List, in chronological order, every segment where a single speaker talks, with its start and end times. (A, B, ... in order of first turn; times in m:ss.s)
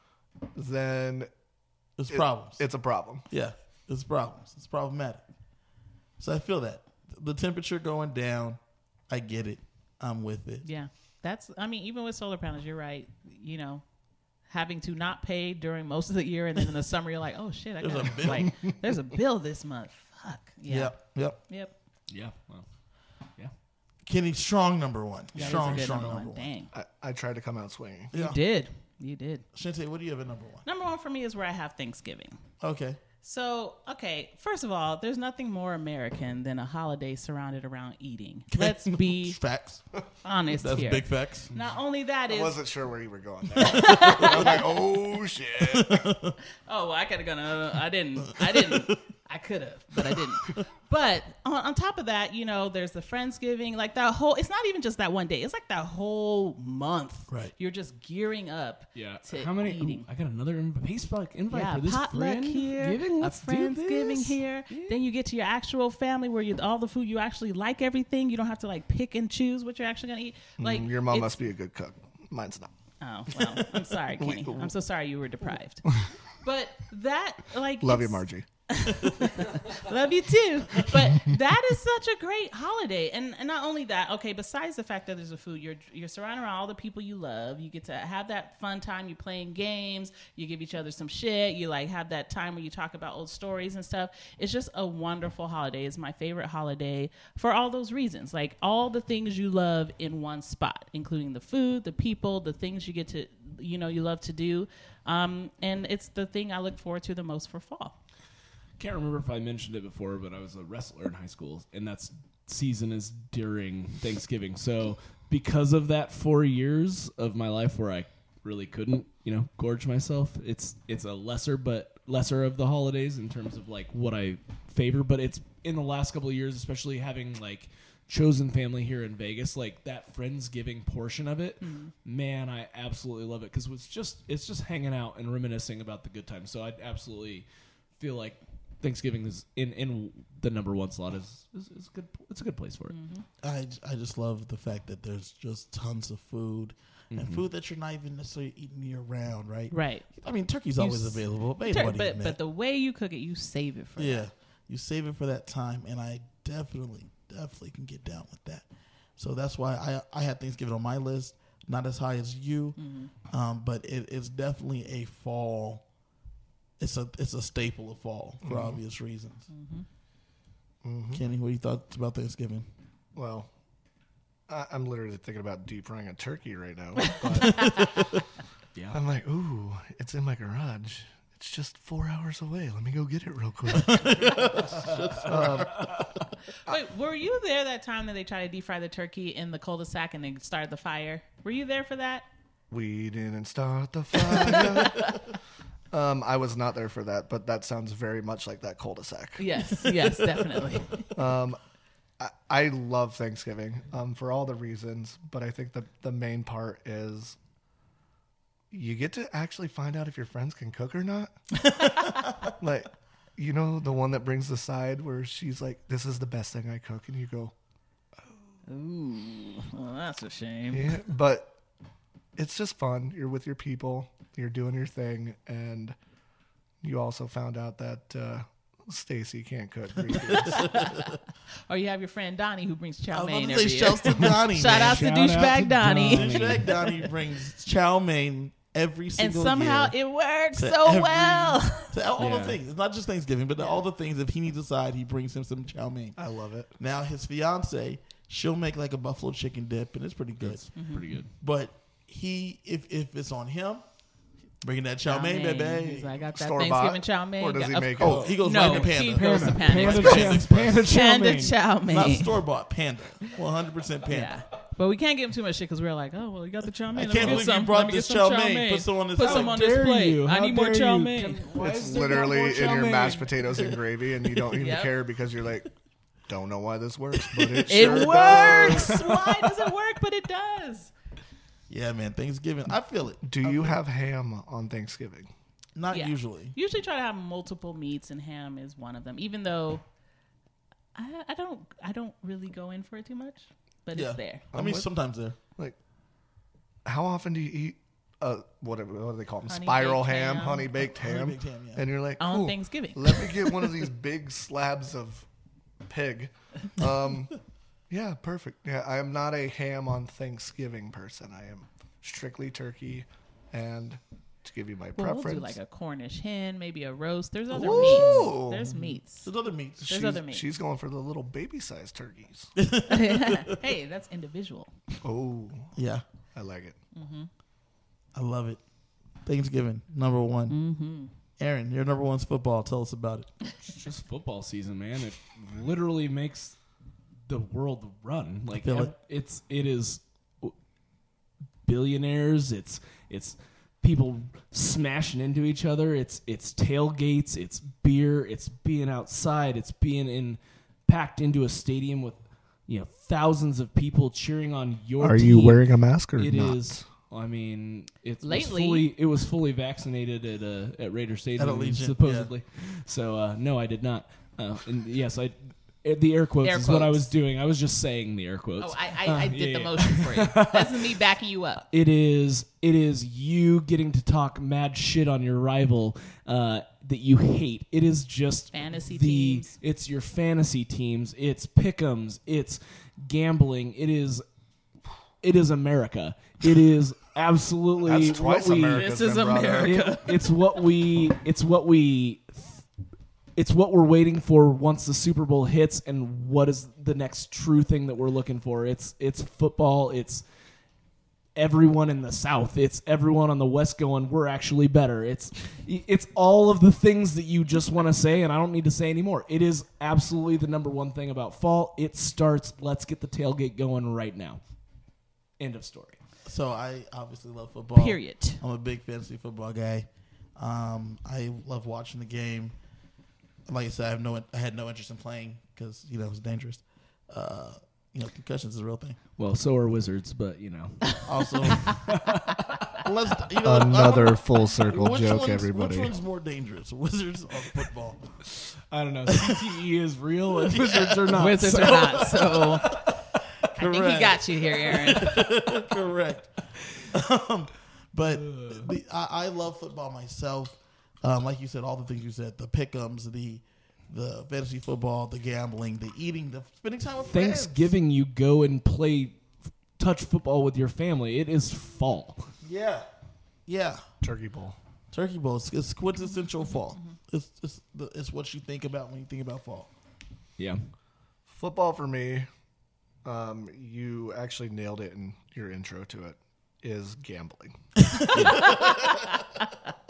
0:00.5-0:01.3 A
0:02.0-0:02.6 B
0:02.1-0:03.2 A
0:03.3-0:05.2 B
0:06.2-0:10.6 B
0:10.6-0:13.8 C
0:14.4-0:21.7 C
0:17.8-0:18.6 B
0:20.7-0:21.4 B
0:22.1-0:22.6 D
0:24.0-0:26.5 B
0:25.3-0:26.7 C
0:26.7-0:28.1 A
0:28.1-0:28.4 B
0:28.1-0:29.4 C
0:29.5-0:30.6 B
0:30.6-0:32.4 C
0:32.6-0:33.0 B
0:33.2-0:39.4 C
0:38.5-0:39.8 B
0:40.2-0:42.6 C
0:40.5-0:41.5 B
0:42.3-0:46.2 A
0:43.6-0:44.6 C
0:43.6-0:44.8 B
0:45.6-0:46.4 B
0:46.6-1:00.0 C
0:48.2-0:49.0 B
0:49.9-0:50.6 B
0:58.9-1:05.0 D
1:01.5-1:11.4 C
1:10.6-1:12.7 A
1:13.0-1:15.8 C
1:14.2-1:14.6 A
1:16.4-1:48.0 C
1:17.8-1:18.4 A
1:48.8-2:17.4 D
2:11.6-2:11.9 C
2:18.0-2:22.9 D
2:22.9-2:23.2 C
2:23.4-2:32.4 B
2:27.1-2:27.4 D
2:29.7-2:30.1 C
2:30.8-2:34.3 C
2:34.0-2:38.6 B
2:39.2-2:45.8 B
2:42.8-2:43.1 C
2:46.8-2:49.4 B
2:48.4-2:48.8 A
2:49.5-2:49.8 C
2:50.8-2:51.2 A
2:51.1-2:52.6 B
2:53.2-2:53.5 A
2:54.5-2:58.2 A
2:57.5-2:57.9 B
2:58.9-3:06.1 A
3:03.8-3:05.9 B
3:06.6-3:12.3 C
3:12.7-3:15.3 A
3:14.3-3:15.2 C
3:15.9-3:19.4 A
3:19.4-3:21.1 C
3:21.1-3:21.6 A
3:22.2-3:27.4 A
3:28.7-3:37.5 A
3:38.7-3:41.0 C
3:40.7-3:41.6 A
3:42.4-3:46.0 A
3:46.8-3:50.9 A
3:50.2-3:51.0 B
3:50.4-3:57.0 C
3:53.1-3:55.1 B
3:54.6-3:56.7 D
3:56.0-3:59.9 B
3:59.2-4:02.0 C
4:00.5-4:06.2 B
4:02.2-4:02.6 D
4:06.2-4:06.7 A
4:06.8-4:10.6 B
4:10.4-4:11.3 D
4:10.7-4:11.1 C
4:11.3-4:13.8 B
4:14.6-4:16.2 B
4:15.0-4:22.4 C
4:16.3-4:18.4 A
4:18.0-4:20.9 B
4:18.5-4:21.6 D
4:21.9-4:24.3 B
4:24.0-4:31.4 C
4:26.9-4:29.6 B
4:27.1-4:27.4 D
4:29.2-4:33.8 D
4:31.6-4:35.7 A
4:34.5-4:34.9 C
4:36.3-4:39.0 A
4:37.3-4:39.1 B
4:37.6-4:40.9 C
4:41.7-4:43.8 B
4:43.2-4:45.3 A
4:45.7-4:46.5 B
4:45.9-4:49.8 C
4:50.9-4:54.4 C
4:53.9-4:55.4 B
4:54.5-4:54.9 A
4:56.8-5:05.3 A
4:59.5-5:00.7 C
5:00.8-5:01.9 B
5:02.2-5:03.7 C
5:05.8-5:07.4 A
5:07.9-5:15.6 A
5:15.0-5:19.3 C
5:17.5-5:20.2 B
5:17.6-5:18.4 A
5:19.9-5:20.5 C
5:20.0-5:22.5 A
5:22.6-5:23.6 B
5:22.9-5:24.7 C
5:25.0-5:25.7 A
5:25.7-5:26.0 B
5:26.3-5:26.8 A
5:26.9-5:27.3 C
5:28.1-5:28.6 B
5:29.2-5:30.6 B
5:30.5-5:31.1 C
5:31.4-5:33.3 B
5:33.6-5:36.6 D
5:37.3-5:40.5 D
5:38.5-5:38.9 B
5:41.6-6:10.9 D
5:55.0-5:56.8 A
5:58.2-5:58.9 C
6:01.4-6:02.3 B
6:06.4-6:07.1 C
6:08.6-6:11.6 C
6:11.7-6:24.2 D
6:18.5-6:19.6 C
6:25.2-6:32.6 D
6:27.8-6:29.7 A
6:28.7-6:30.4 C
6:33.4-6:40.2 D
6:41.4-6:54.4 D
6:55.4-6:56.0 D
6:56.2-7:02.6 B
6:57.8-6:58.4 C
7:03.4-7:09.0 B
7:09.2-7:12.4 D
7:11.0-7:11.9 B
7:12.8-7:18.2 B
7:13.4-7:15.9 A
7:18.7-7:22.8 D
7:20.4-7:37.7 B
7:21.1-7:22.7 C
7:23.5-7:25.3 C
7:28.1-7:28.7 D
7:37.1-7:39.2 D
7:39.8-7:42.3 D
7:42.4-7:42.8 B
7:43.4-7:43.8 B
7:44.0-7:44.6 A
7:44.9-7:49.7 B
7:51.3-7:52.3 A
7:53.0-7:57.6 A
7:58.1-7:58.6 D